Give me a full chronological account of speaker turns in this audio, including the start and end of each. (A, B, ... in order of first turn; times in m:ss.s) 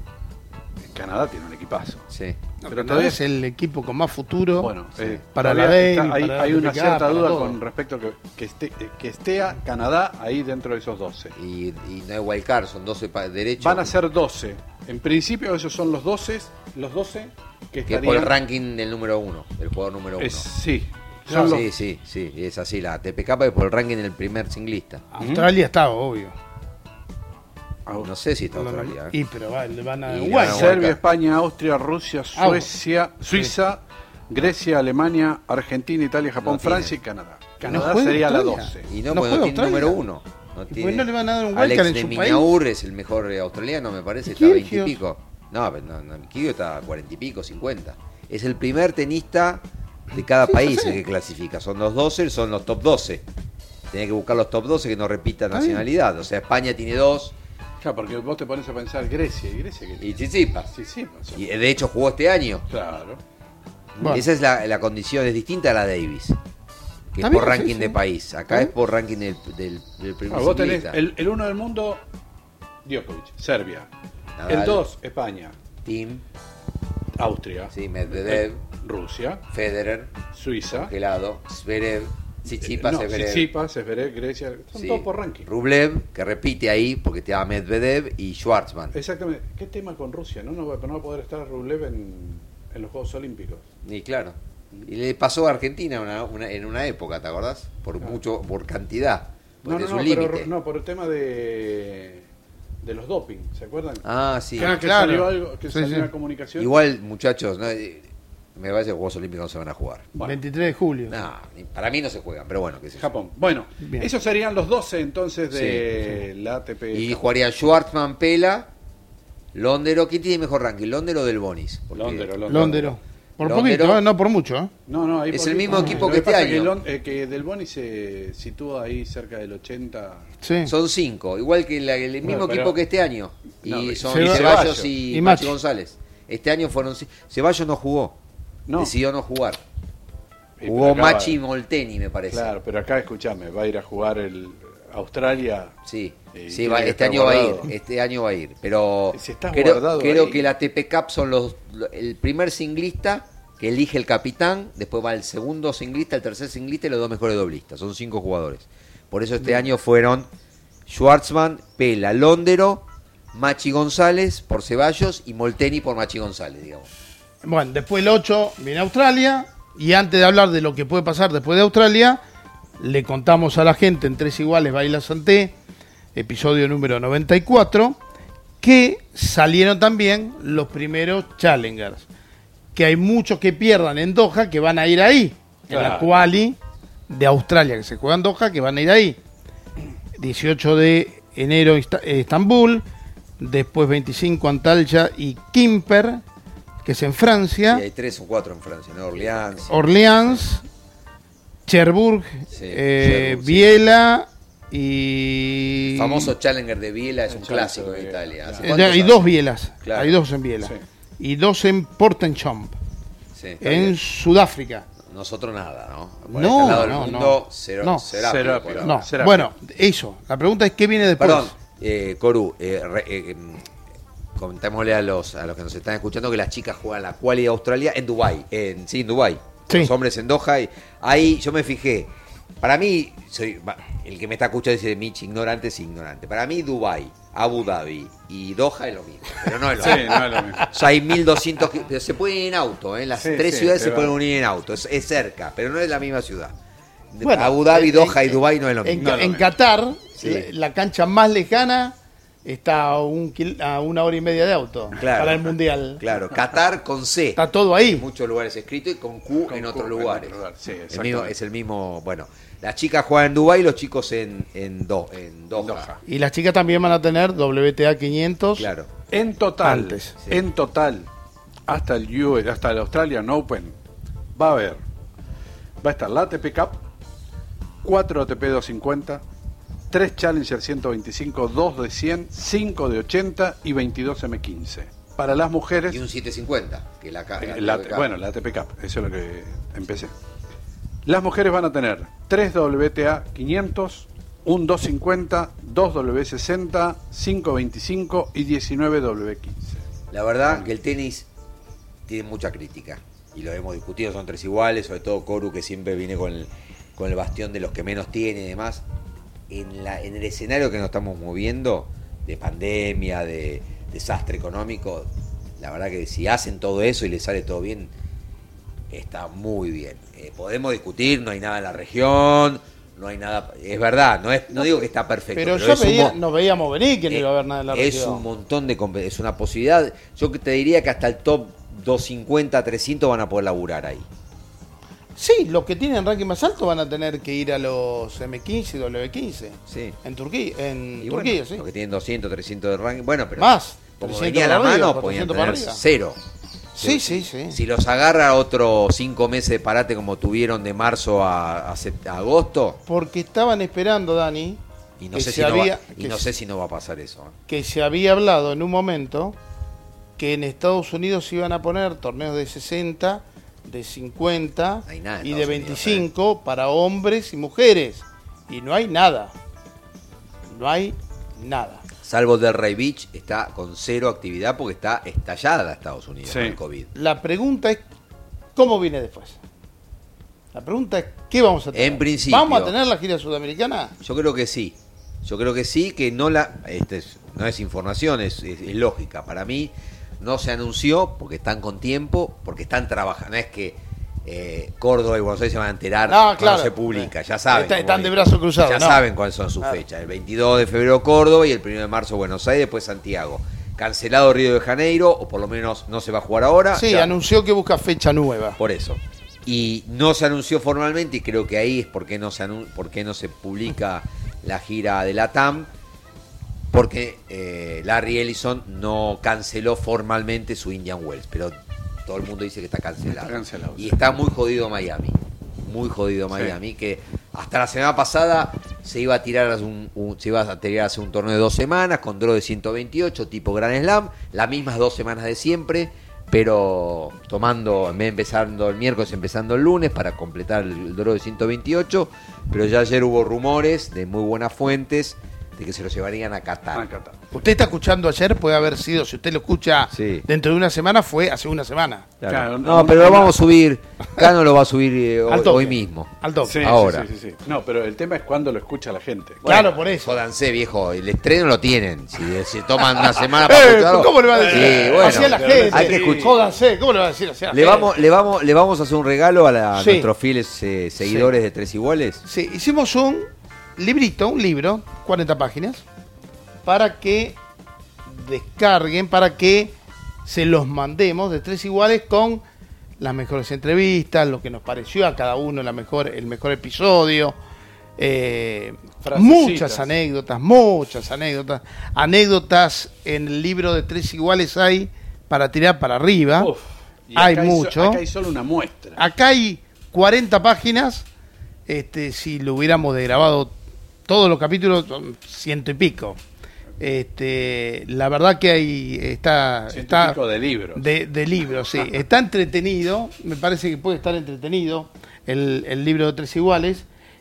0:00.8-0:02.1 A
0:02.1-0:02.4 B
0:02.6-0:04.7 C
0:02.7-0:03.2 A
0:04.6-0:11.4 A
0:05.0-0:05.2 B
0:05.4-0:07.6 C
0:11.4-0:14.0 B
0:13.6-0:18.4 A
0:17.9-0:20.5 B
0:20.2-0:21.7 A
0:21.3-0:25.0 B
0:25.1-0:26.3 C
0:25.2-0:25.5 A
0:28.0-0:29.2 B
0:28.6-0:30.8 C
0:30.1-0:31.0 B
0:30.4-0:38.9 A
0:32.4-0:32.7 C
0:36.4-0:37.0 B
0:37.6-0:40.0 C
0:38.9-0:53.2 B
0:40.7-0:42.5 C
0:44.3-0:45.0 C
0:50.5-0:51.0 C
0:53.9-0:57.4 B
0:55.5-0:55.8 C
0:57.8-1:01.4 A
1:00.0-1:00.7 B
1:01.4-1:02.6 B
1:02.7-1:03.2 A
1:04.0-1:06.4 B
1:04.0-1:04.3 C
1:07.1-1:11.0 B
1:07.2-1:08.0 C
1:10.3-1:12.0 A
1:12.8-1:13.9 A
1:14.4-1:14.8 B
1:14.5-1:15.6 A
1:15.8-1:16.2 B
1:17.2-1:19.4 A
1:17.7-1:18.6 B
1:19.5-1:20.1 B
1:20.3-1:20.9 A
1:20.7-1:23.5 B
1:22.6-1:25.5 A
1:24.8-1:29.0 B
1:28.9-1:33.6 A
1:33.8-1:40.5 B
1:39.6-1:42.2 A
1:42.8-1:46.7 A
1:44.0-1:44.8 B
1:44.6-1:46.1 C
1:46.6-1:50.1 B
1:50.1-1:50.4 A
1:50.2-1:51.2 C
1:51.1-1:53.1 B
1:53.0-1:57.2 A
1:53.8-1:54.1 C
1:55.5-1:55.9 B
1:56.9-1:58.7 B
1:59.5-2:02.8 B
2:01.9-2:03.0 A
2:02.5-2:04.7 C
2:03.4-2:04.0 B
2:04.9-2:10.3 A
2:05.3-2:06.8 B
2:05.7-2:06.0 C
2:10.4-2:10.7 C
2:10.7-2:18.2 B
2:12.2-2:12.8 A
2:13.6-2:14.9 A
2:14.1-2:15.6 C
2:18.7-2:18.9 A
2:18.8-2:19.6 B
2:20.6-2:21.4 A
2:20.6-2:22.5 B
2:22.3-2:25.7 A
2:25.9-2:40.3 B
2:26.3-2:27.7 A
2:29.1-2:30.4 A
2:40.9-2:46.9 B
2:47.4-2:52.2 C
2:52.8-2:55.6 C
2:56.2-2:58.0 C
2:58.6-3:02.1 C
3:02.8-3:06.6 C
3:05.7-3:06.1 A
3:07.1-3:09.2 C
3:10.2-3:12.8 C
3:13.4-3:16.2 C
3:16.8-3:17.8 C
3:17.7-3:19.8 B
3:19.7-3:20.6 C
3:21.7-3:26.3 C
3:22.5-3:23.8 B
3:25.9-3:29.3 B
3:27.3-3:28.7 A
3:28.6-3:32.8 C
3:29.8-3:30.2 B
3:33.4-3:34.0 B
3:33.6-3:34.9 C
3:35.0-3:39.1 B
3:36.3-3:38.0 C
3:38.1-3:39.5 A
3:38.8-3:41.5 C
3:41.2-3:43.7 B
3:44.4-4:06.5 B
3:59.8-4:00.7 A
3:59.8-4:00.7 C
4:03.2-4:04.2 A
4:07.1-4:09.2 B
4:07.2-4:16.0 C
4:09.0-4:09.5 A
4:10.2-4:10.5 B
4:15.0-4:20.4 B
4:17.4-4:18.0 C
4:19.4-4:21.3 A
4:20.9-4:25.9 B
4:25.6-4:26.0 A
4:26.1-4:28.7 C
4:28.6-4:28.9 B
4:29.1-4:31.1 A
4:29.6-4:30.1 C
4:31.7-4:33.8 A
4:34.4-4:34.8 A
4:35.8-4:36.8 A
4:37.8-4:39.2 A
4:39.9-4:46.0 A
4:45.8-4:48.1 B
4:47.4-4:50.1 A
4:51.1-4:59.8 A
5:00.1-5:01.3 B
5:02.1-5:08.8 B
5:09.5-5:17.9 B
5:18.9-5:26.2 B
5:25.4-5:28.2 C
5:27.1-5:34.1 B
5:35.2-5:41.6 C
5:39.7-5:40.0 B
5:41.0-5:46.2 B
5:43.4-5:45.8 C
5:46.8-5:47.6 C
5:46.8-5:52.8 B
5:52.9-5:54.6 C
5:55.0-5:57.4 B
5:55.1-5:56.3 C
5:57.5-5:59.4 C
6:00.2-6:09.3 C
6:04.9-6:06.1 B
6:10.5-6:11.8 C
6:12.0-6:16.9 B
6:16.3-6:16.6 A
6:17.0-6:17.8 C
6:18.6-6:19.4 C
6:20.5-6:23.9 C
6:21.7-6:22.7 B
6:24.0-6:47.2 B
6:36.1-6:39.0 C
6:46.7-6:48.6 C
6:48.6-6:55.7 B
6:56.7-7:01.6 B
7:02.1-7:26.9 B
7:03.1-7:04.0 A
7:26.7-7:27.2 A
7:27.3-7:32.1 C
7:29.9-7:30.3 B
7:32.2-7:37.1 B
7:32.3-7:33.4 A
7:35.3-7:36.6 C
7:36.4-7:39.5 A
7:39.4-7:46.4 B
7:39.4-7:40.2 C
7:43.0-7:47.9 C
7:44.3-7:46.4 A
7:47.5-7:52.2 B
7:49.8-7:50.1 C
7:52.2-7:55.8 C
7:56.6-7:57.4 C
7:58.1-7:59.7 C
8:00.2-8:02.4 C
8:03.0-8:07.4 C
8:08.0-8:16.5 C
8:09.0-8:09.9 A
8:16.4-8:19.0 A
8:17.2-8:18.0 C
8:19.0-8:21.1 C
8:21.7-8:23.5 C
8:24.1-8:26.2 C
8:26.8-8:30.2 C
8:29.7-8:30.8 A
8:30.8-8:36.9 C